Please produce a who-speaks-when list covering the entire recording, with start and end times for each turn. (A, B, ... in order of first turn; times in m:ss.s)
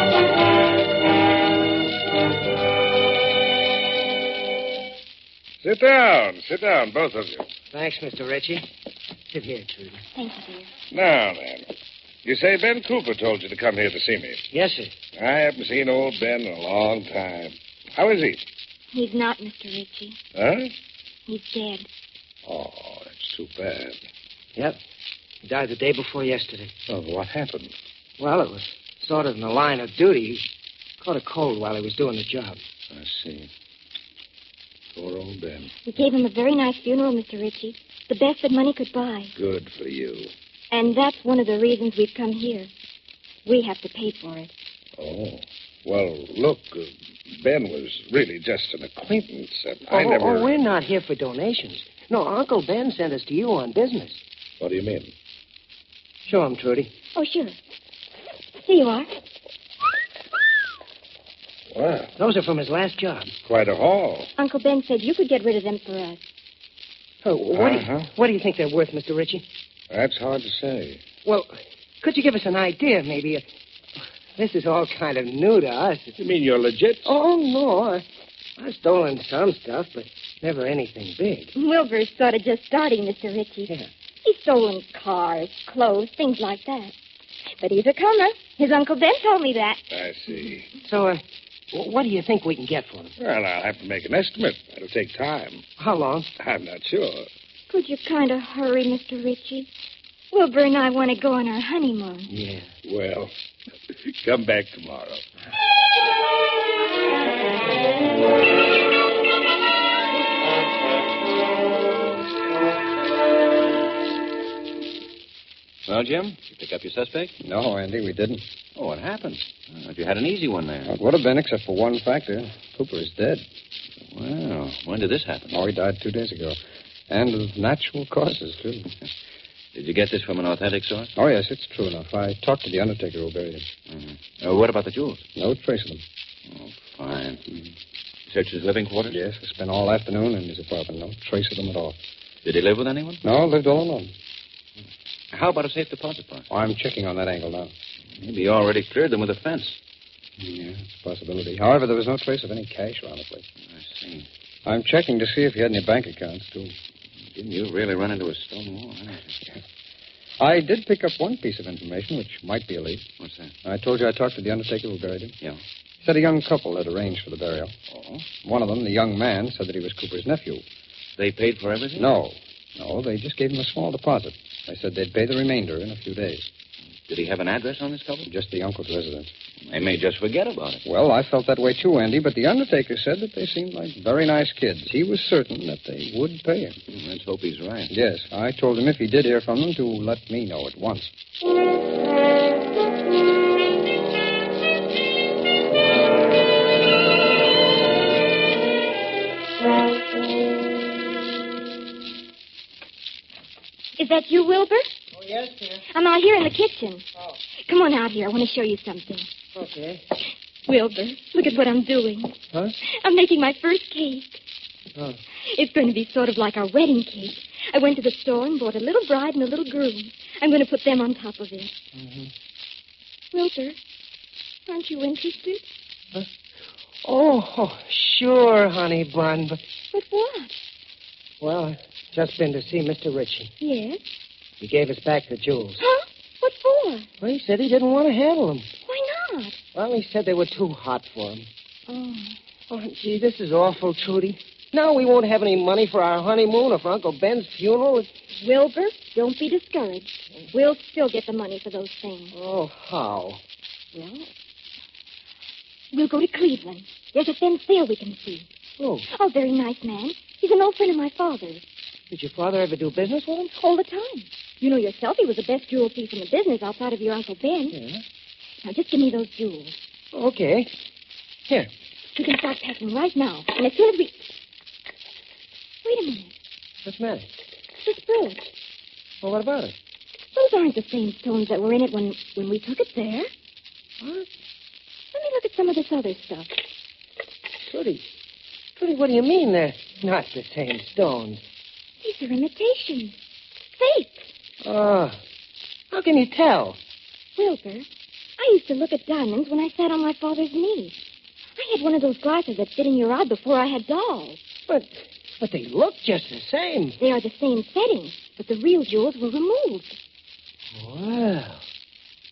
0:05.6-0:07.4 A
0:07.7-0:08.7 B
0:09.3-0:10.0 B
0:10.2-0:10.7 C
0:10.9-0:11.7 A
0:12.2-0:14.4 A
0:14.5-0:14.9 B
0:15.2-0:18.4 A
0:18.9-0:20.2 C
0:20.4-0:20.7 A
0:21.3-0:21.9 C
0:22.4-0:24.0 A
0:25.4-0:26.7 B
0:26.9-0:27.7 A
0:28.2-0:30.4 B
0:31.0-0:32.6 B
0:32.9-0:33.5 A
0:34.9-0:35.7 A
0:35.8-0:39.3 C
0:39.4-0:40.3 A
0:40.7-0:42.7 C
0:43.4-0:44.5 C
0:45.0-0:50.5 A
0:49.9-0:54.2 B
0:54.6-0:55.1 A
0:56.2-0:56.9 B
0:57.2-0:57.6 C
0:58.6-0:59.1 C
1:01.7-1:02.1 A
1:02.2-1:03.3 B
1:03.4-1:04.3 A
1:04.4-1:06.2 C
1:07.2-1:09.4 B
1:07.5-1:08.1 A
1:09.9-1:11.0 A
1:11.2-1:13.4 B
1:14.4-1:16.2 B
1:16.2-1:17.2 A
1:17.0-1:18.0 B
1:18.6-1:21.5 B
1:21.6-1:23.7 C
1:24.2-1:26.9 C
1:27.6-1:30.5 C
1:29.9-1:30.7 A
1:30.8-1:33.1 B
1:33.2-1:35.6 A
1:35.8-1:36.3 B
1:36.4-1:37.3 A
1:37.7-1:39.7 C
1:40.3-1:42.3 C
1:42.3-1:42.7 B
1:42.8-1:43.3 A
1:43.9-1:45.2 A
1:55.9-1:57.3 D
1:57.4-1:58.4 E
1:58.8-2:00.9 D
2:00.8-2:03.4 E
2:04.0-2:05.6 D
2:05.5-2:06.6 E
2:07.1-2:08.9 E
2:09.7-2:11.1 D
2:11.2-2:13.7 E
2:13.9-2:15.2 D
2:15.4-2:16.0 E
2:16.5-2:17.4 D
2:18.3-2:19.2 D
2:19.1-2:22.0 E
2:22.4-2:23.2 D
2:23.2-2:24.1 E
2:25.3-2:26.5 D
2:26.5-2:27.7 E
2:28.2-2:29.8 D
2:30.4-2:33.4 E
2:33.7-2:34.3 D
2:34.6-2:36.8 E
2:37.3-2:39.4 D
2:40.4-2:43.1 E
2:43.2-2:43.5 D
2:43.6-2:45.4 E
2:46.0-2:47.8 E
2:47.9-2:48.3 D
2:48.3-2:50.6 E
2:51.2-2:52.1 D
2:52.0-2:56.5 E
2:57.0-2:58.3 D
2:58.3-2:59.3 E
2:59.7-3:00.8 D
3:00.8-3:06.8 E
3:06.9-3:07.9 D
3:07.9-3:11.1 E
3:24.0-3:24.9 C
3:25.2-3:25.8 B
3:25.9-3:27.0 C
3:27.7-3:29.3 C
3:29.5-3:30.0 B
3:30.7-3:34.4 C
3:35.4-3:41.7 C
3:41.9-3:42.3 B
3:43.3-3:43.8 C
3:44.7-3:45.6 C
3:47.0-3:49.6 B
3:49.9-3:50.6 C
3:51.4-3:53.5 B
3:53.6-3:54.0 C
3:54.6-3:55.8 B
3:55.8-3:57.1 C
3:57.2-3:58.7 B
3:58.9-3:59.6 C
3:59.7-4:01.5 B
4:01.9-4:02.4 C
4:02.7-4:08.1 B
4:08.4-4:12.3 C
4:12.3-4:13.4 B
4:14.0-4:14.2 C
4:15.9-4:18.5 C
4:18.8-4:19.1 B
4:19.1-4:21.6 C
4:22.1-4:23.5 B
4:23.5-4:27.8 C
4:27.7-4:28.0 B
4:28.6-4:29.8 C
4:30.1-4:30.7 B
4:32.2-4:34.3 C
4:35.8-4:36.3 C
4:36.8-4:37.3 B
4:37.8-4:38.4 C
4:39.2-4:39.8 B
4:40.3-4:43.3 C
4:44.0-4:44.3 B
4:45.1-4:46.5 C
4:47.6-4:48.1 B
4:48.8-4:51.4 B
4:52.0-4:53.2 C
4:53.8-4:54.3 C
4:54.6-4:55.2 B
4:55.9-4:56.8 B
4:57.4-4:57.9 C
4:58.4-5:01.0 C
5:01.6-5:04.4 C
5:04.7-5:07.0 B
5:07.0-5:10.0 C
5:10.7-5:11.6 B